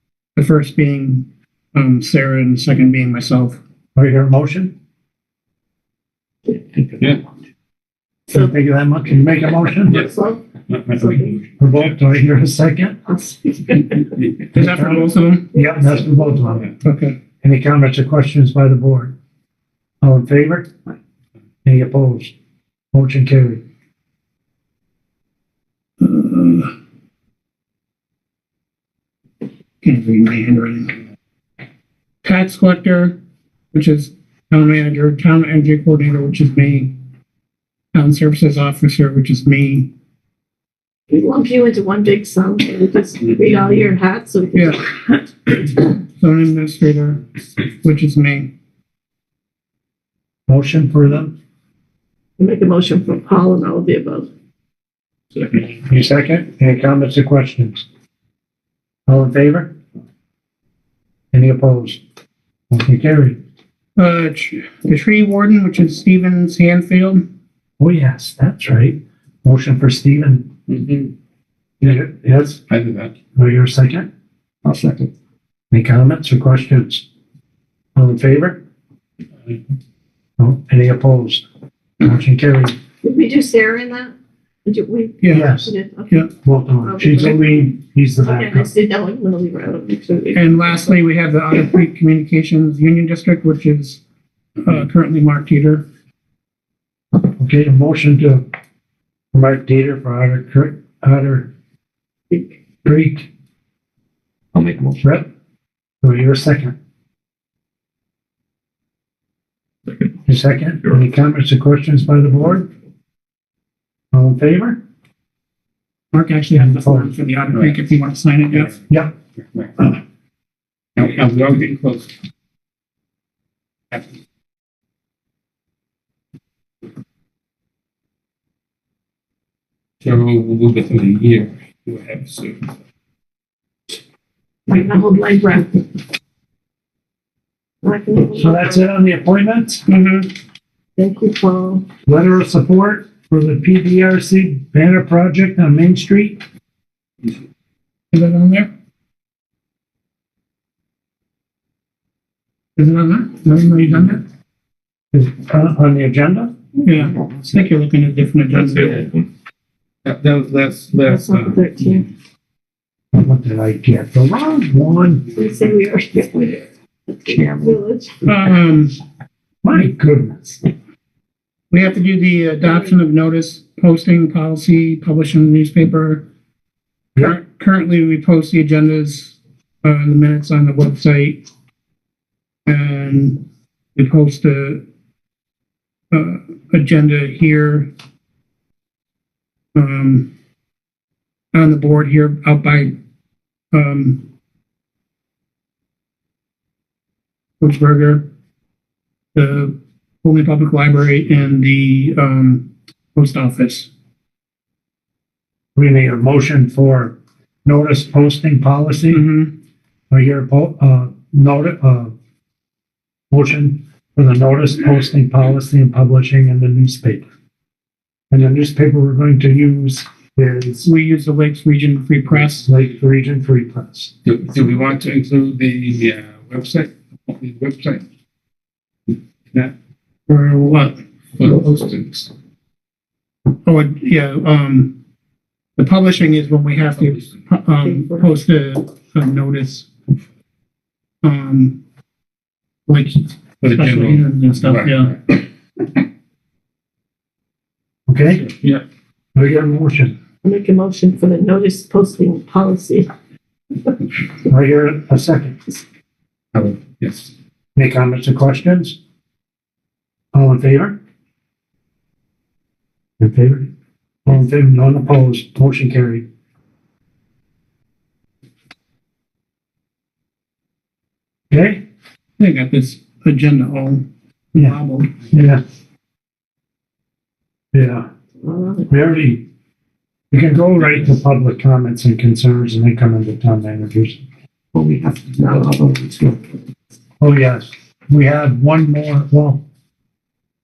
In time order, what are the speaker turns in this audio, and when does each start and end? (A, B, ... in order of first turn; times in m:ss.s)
0:00.4-0:03.6 A
0:03.9-0:04.7 B
0:06.5-0:06.8 C
0:08.3-0:10.1 B
0:09.9-0:11.4 C
0:10.7-0:11.4 D
0:11.6-0:13.0 B
0:13.1-0:14.2 C
0:14.5-0:15.5 A
0:14.5-0:16.7 B
0:15.5-0:16.4 C
0:16.8-0:17.2 A
0:17.4-0:19.1 B
0:20.0-0:20.7 B
0:21.6-0:22.3 B
0:22.9-0:23.6 B
0:26.0-0:26.7 A
0:29.8-0:30.9 A
0:32.2-0:33.2 A
0:33.7-0:36.9 A
0:37.9-0:39.9 A
0:41.1-0:45.2 C
0:44.6-0:44.8 A
0:45.6-0:47.2 A
0:47.8-0:48.5 A
0:50.5-0:51.3 B
0:52.4-0:54.3 C
0:55.7-0:57.8 B
0:59.1-0:59.7 B
1:01.3-1:02.0 B
1:02.7-1:03.4 B
1:04.0-1:07.2 A
1:07.8-1:10.5 B
1:10.7-1:11.1 D
1:11.8-1:12.6 B
1:12.7-1:13.1 D
1:13.3-1:14.1 B
1:14.6-1:15.1 E
1:15.7-1:17.0 B
1:18.0-1:18.6 B
1:20.4-1:21.4 B
1:22.0-1:22.7 B
1:23.0-1:24.1 C
1:24.6-1:26.2 C
1:25.2-1:25.5 A
1:25.3-1:25.7 B
1:26.4-1:28.7 B
1:26.8-1:30.8 C
1:30.3-1:34.0 A
1:34.6-1:35.9 A
1:37.2-1:38.4 B
1:39.3-1:41.5 B
1:42.8-1:43.3 B
1:44.5-1:45.1 E
1:45.0-1:45.3 B
1:46.0-1:46.7 B
1:50.2-1:52.7 B
1:54.1-1:54.8 B
1:56.1-1:58.7 A
1:56.6-1:57.1 B
1:58.9-1:59.1 B
1:59.5-1:59.9 D
2:01.0-2:02.1 D
2:10.0-2:12.7 D
2:14.7-2:15.9 C
2:17.8-2:18.8 C
2:18.3-2:19.8 B
2:19.9-2:20.3 A
2:21.0-2:21.8 C
2:22.1-2:26.4 B
2:28.1-2:28.7 A
2:32.8-2:34.2 A
2:35.1-2:36.5 B
2:36.8-2:39.0 A
2:37.0-2:37.7 E
2:38.7-2:39.2 E
2:40.0-2:42.0 D
2:41.0-2:42.1 C
2:43.1-2:45.2 B
2:45.3-2:46.6 C
2:47.2-2:47.8 E
2:47.3-2:48.3 C
2:48.2-2:49.0 A
2:49.6-2:50.6 B
2:51.7-2:56.2 A
2:57.2-3:01.4 A
3:02.6-3:03.4 A
3:03.9-3:04.8 A
3:06.1-3:07.9 A
3:09.7-3:10.3 A
3:11.5-3:12.9 A
3:13.7-3:14.2 A
3:17.6-3:18.2 A
3:19.3-3:23.9 A
3:25.8-3:29.2 B
3:29.1-3:29.5 A
3:30.1-3:32.1 B
3:33.3-3:37.2 B
3:38.3-3:40.9 B
3:40.8-3:42.7 A
3:42.6-3:44.1 B
3:44.2-3:48.0 D
3:50.3-3:51.0 A
3:51.4-3:52.3 D
3:53.6-3:54.9 A
3:55.8-3:59.9 A
3:57.8-3:58.2 C
4:01.2-4:01.8 A
4:02.9-4:05.2 A
4:03.6-4:05.3 D
4:08.1-4:08.5 B
4:09.3-4:10.1 B
4:10.4-4:13.1 C
4:14.5-4:15.7 B
4:16.5-4:17.3 D
4:17.8-4:19.0 B
4:20.3-4:21.0 B
4:23.2-4:23.7 B
4:24.2-4:26.2 B
4:31.5-4:31.8 B
4:32.4-4:35.1 A
4:35.3-4:35.6 B
4:37.7-4:38.1 B
4:38.4-4:38.9 C
4:38.9-4:39.4 B
4:40.3-4:44.2 B
4:44.7-4:46.4 E
4:47.2-4:49.6 B